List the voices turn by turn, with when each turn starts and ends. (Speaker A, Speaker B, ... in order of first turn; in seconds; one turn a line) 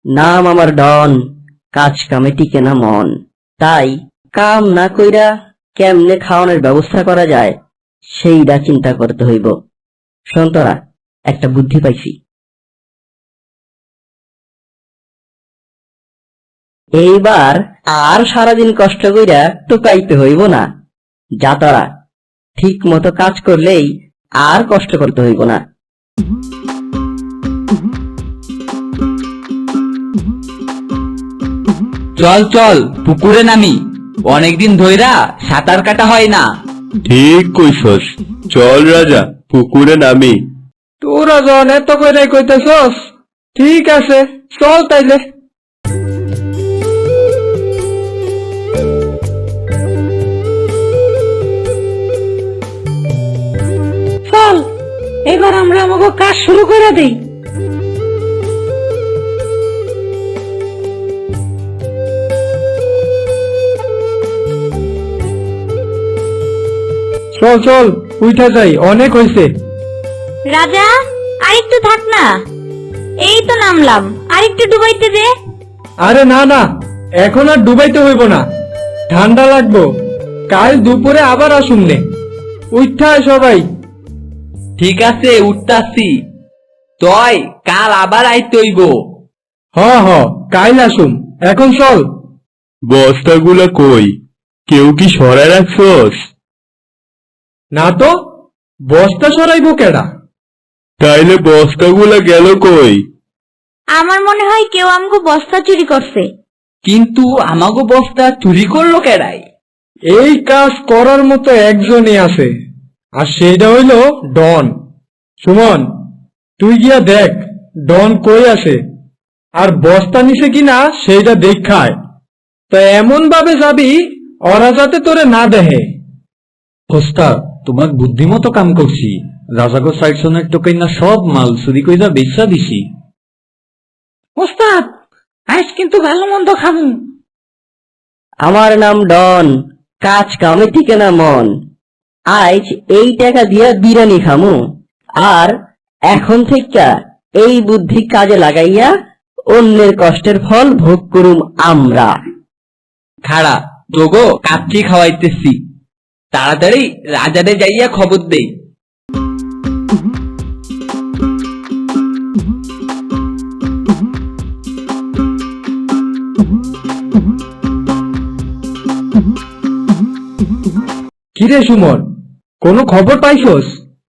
Speaker A: 0.1-1.2
Speaker A: 1.8-7.5
Speaker A: 8.2-9.5
Speaker A: 10.3-10.8
Speaker A: 11.3-12.1
Speaker A: 17.0-20.6
Speaker A: 21.4-21.9
Speaker A: 22.6-23.9
Speaker A: 24.4-25.6
Speaker B: 32.2-36.4
Speaker C: 37.0-40.3
Speaker D: 41.0-42.9
Speaker D: 43.5-45.2
Speaker E: 54.3-54.7
Speaker E: 55.3-57.2
Speaker D: 67.3-69.5
Speaker F: 70.5-70.8
Speaker F: 71.5-72.2
Speaker F: 73.2-75.2
Speaker D: 76.0-76.6
Speaker D: 77.2-78.4
Speaker D: 79.1-79.8
Speaker D: 80.5-82.0
Speaker D: 82.7-83.6
Speaker B: 84.8-86.1
Speaker B: 87.0-88.9
Speaker D: 89.7-92.0
Speaker C: 92.9-94.1
Speaker C: 94.7-96.2
Speaker D: 97.7-98.1
Speaker D: 98.9-100.0
Speaker C: 101.0-103.0
Speaker F: 104.0-106.2
Speaker B: 106.8-109.4
Speaker D: 110.1-112.5
Speaker D: 113.2-114.7
Speaker D: 115.4-115.8
Speaker D: 116.6-118.8
Speaker D: 119.6-121.9
Speaker D: 122.7-123.9
Speaker D: 124.5-125.8
Speaker G: 126.9-132.8
Speaker E: 134.4-134.9
Speaker E: 135.5-137.0
Speaker A: 138.4-139.5
Speaker A: 140.0-141.5
Speaker A: 142.3-144.5
Speaker A: 145.2-145.5
Speaker A: 146.1-146.9
Speaker A: 147.4-148.9
Speaker A: 149.5-152.1
Speaker B: 153.2-155.6
Speaker B: 156.3-158.5
Speaker D: 171.3-172.0
Speaker D: 172.6-173.7